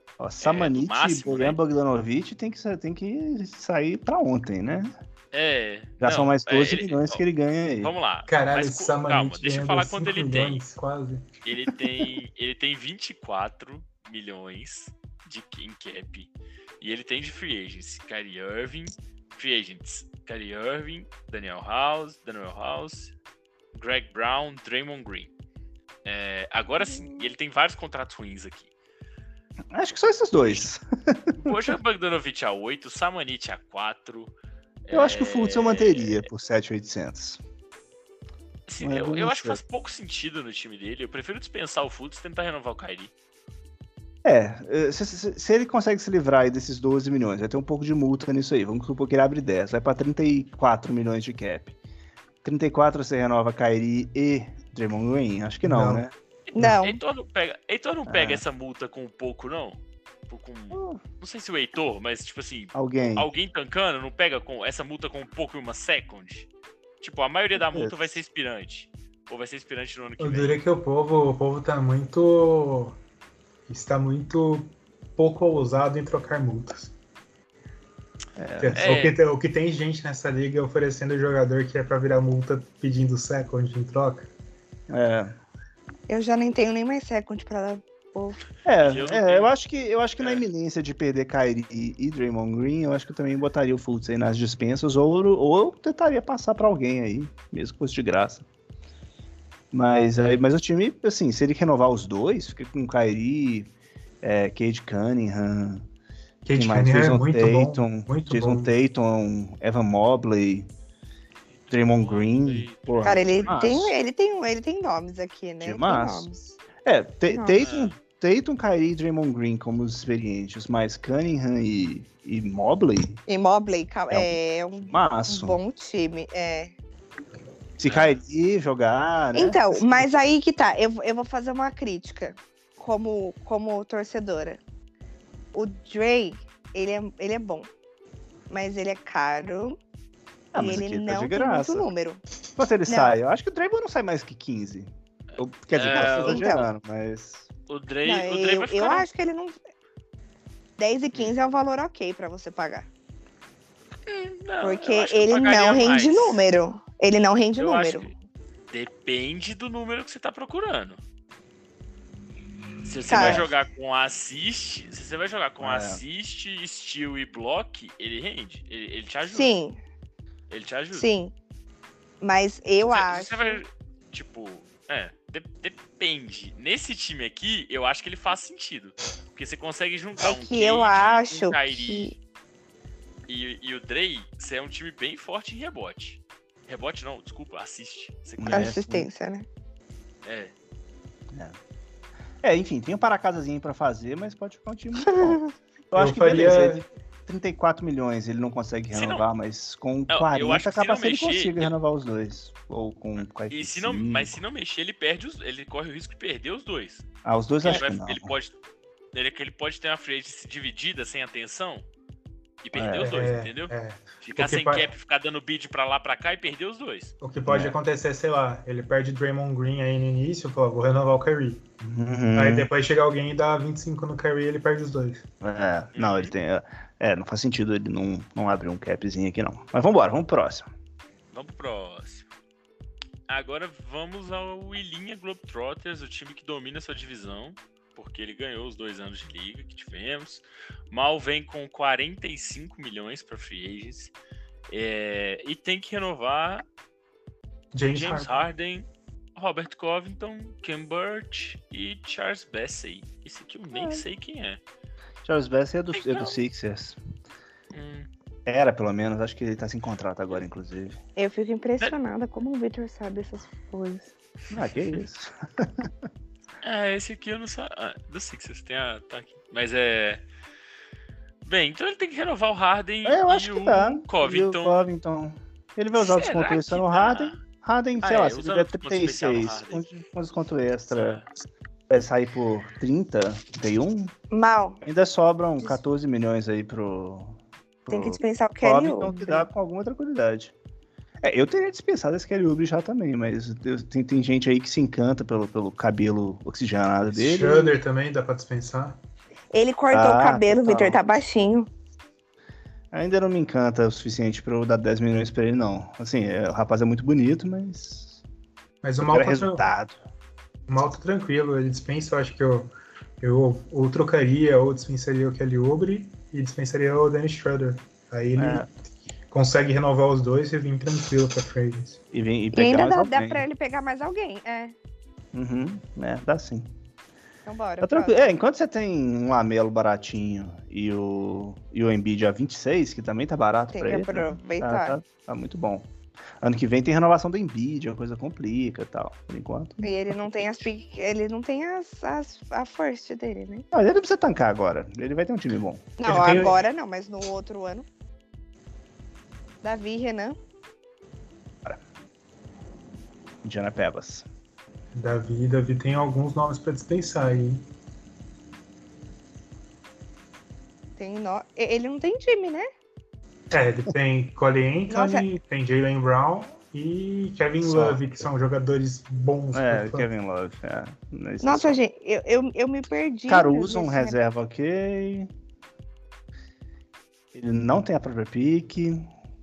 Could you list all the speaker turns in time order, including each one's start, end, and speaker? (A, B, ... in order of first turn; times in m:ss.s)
0:00.2-0:04.9 A
0:00.4-0:01.6 B
0:05.3-0:07.2 B
0:06.0-0:08.0 A
0:07.8-0:10.6 B
0:08.3-0:11.3 C
0:11.4-0:16.3 B
0:16.8-0:23.1 B
0:23.7-0:25.3 B
0:26.0-0:28.7 B
0:29.7-0:31.7 A
0:30.4-0:30.7 B
0:31.4-0:34.3 B
0:34.9-0:36.3 B
0:34.9-0:37.4 A
0:38.7-0:43.1 B
0:38.8-0:39.6 A
0:44.2-0:51.8 A
0:52.4-0:56.1 A
0:55.6-0:56.0 C
0:56.5-0:57.0 D
0:56.6-1:06.5 B
0:58.1-0:58.4 A
1:00.7-1:01.0 A
1:02.7-1:03.3 A
1:07.0-1:10.6 B
1:07.6-1:08.2 A
1:10.2-1:13.0 C
1:13.7-1:16.9 C
1:18.4-1:19.0 A
1:18.6-1:24.3 C
1:18.8-1:19.2 B
1:24.9-1:25.4 A
1:26.1-1:28.4 D
1:28.6-1:38.4 A
1:28.8-1:29.5 B
1:30.2-1:30.4 B
1:39.7-1:43.7 A
1:44.2-1:45.9 A
1:46.4-1:48.7 C
1:46.6-1:50.7 A
1:51.7-1:53.9 B
1:51.7-1:54.0 A
1:53.0-1:56.6 D
1:55.6-1:56.3 A
1:56.8-2:03.2 A
1:57.3-1:57.6 D
1:57.6-1:58.0 B
2:03.3-2:06.7 D
2:04.1-2:05.6 A
2:07.8-2:10.1 A
2:07.8-2:08.2 B
2:09.4-2:14.6 D
2:15.5-2:17.7 D
2:18.5-2:19.8 D
2:20.5-2:21.9 A
2:20.6-2:22.2 D
2:22.6-2:27.5 A
2:22.9-2:23.1 D
2:25.3-2:26.5 B
2:26.2-2:26.7 D
2:27.7-2:29.1 B
2:28.0-2:29.6 D
2:30.8-2:32.9 D
2:34.1-2:36.4 B
2:34.6-2:38.1 D
2:37.6-2:38.1 B
2:38.7-2:41.0 B
2:42.8-2:49.5 B
2:43.1-2:43.5 D
2:43.1-2:43.5 A
2:45.6-2:46.0 A
2:49.3-2:49.8 D
2:50.5-2:51.1 B
2:50.9-2:51.3 D
2:52.2-2:53.6 D
2:52.8-3:02.2 B
3:00.2-3:02.2 D
3:03.3-3:08.7 B
3:08.4-3:09.1 A
3:08.5-3:09.5 D
3:10.2-3:10.5 B
3:12.4-3:24.4 A
3:15.1-3:15.5 D
3:16.0-3:16.8 C
3:18.9-3:19.3 B
3:20.1-3:21.7 B
3:23.2-3:27.0 B
3:27.2-3:28.4 A
3:27.6-3:28.5 B
3:29.1-3:31.9 B
3:32.6-3:37.1 B
3:32.7-3:33.3 A
3:33.0-3:34.9 C
3:37.2-3:41.6 C
3:37.5-3:37.8 A
3:41.8-3:42.7 A
3:42.4-3:45.2 C
3:45.4-3:50.7 A
3:46.0-3:46.3 B
3:51.3-3:52.3 B
3:53.3-4:04.1 B
4:04.7-4:06.6 B
4:07.7-4:08.4 C
4:07.9-4:14.6 B
4:13.7-4:14.0 A
4:15.2-4:17.0 A
4:15.9-4:16.4 B
4:17.7-4:18.1 B
4:18.5-4:21.0 A
4:21.2-4:24.1 D
4:24.5-4:25.9 A
4:26.6-4:30.2 B
4:31.4-4:34.9 B
4:33.0-4:41.2 A
4:36.0-4:37.4 B
4:38.0-4:39.9 B
4:40.9-4:41.2 B
4:41.9-4:44.1 A
4:44.3-4:44.8 D
4:44.8-4:50.5 A
4:47.9-4:49.5 D
4:51.2-4:57.8 A
4:57.1-4:59.0 C
4:59.5-5:01.7 D
4:59.9-5:01.0 A
5:02.9-5:08.2 A
5:08.8-5:09.6 C
5:09.0-5:10.0 A
5:10.7-5:18.7 C
5:18.4-5:18.7 A
5:19.3-5:22.0 C
5:22.1-5:23.4 A
5:22.5-5:24.8 D
5:25.3-5:26.7 A
5:27.5-5:28.3 D
5:27.8-5:40.2 A
5:33.7-5:35.0 D
5:39.8-5:43.6 D
5:43.7-5:46.6 A
5:46.0-5:47.9 D
5:46.0-5:46.6 C
5:49.6-5:50.4 D
5:53.4-5:54.2 A
5:55.0-5:57.6 C
6:01.0-6:02.7 D
6:03.5-6:10.1 C
6:04.9-6:05.3 D
6:07.6-6:08.3 A
6:09.5-6:11.8 A
6:11.4-6:14.2 D
6:13.3-6:15.3 A
6:17.3-6:19.1 A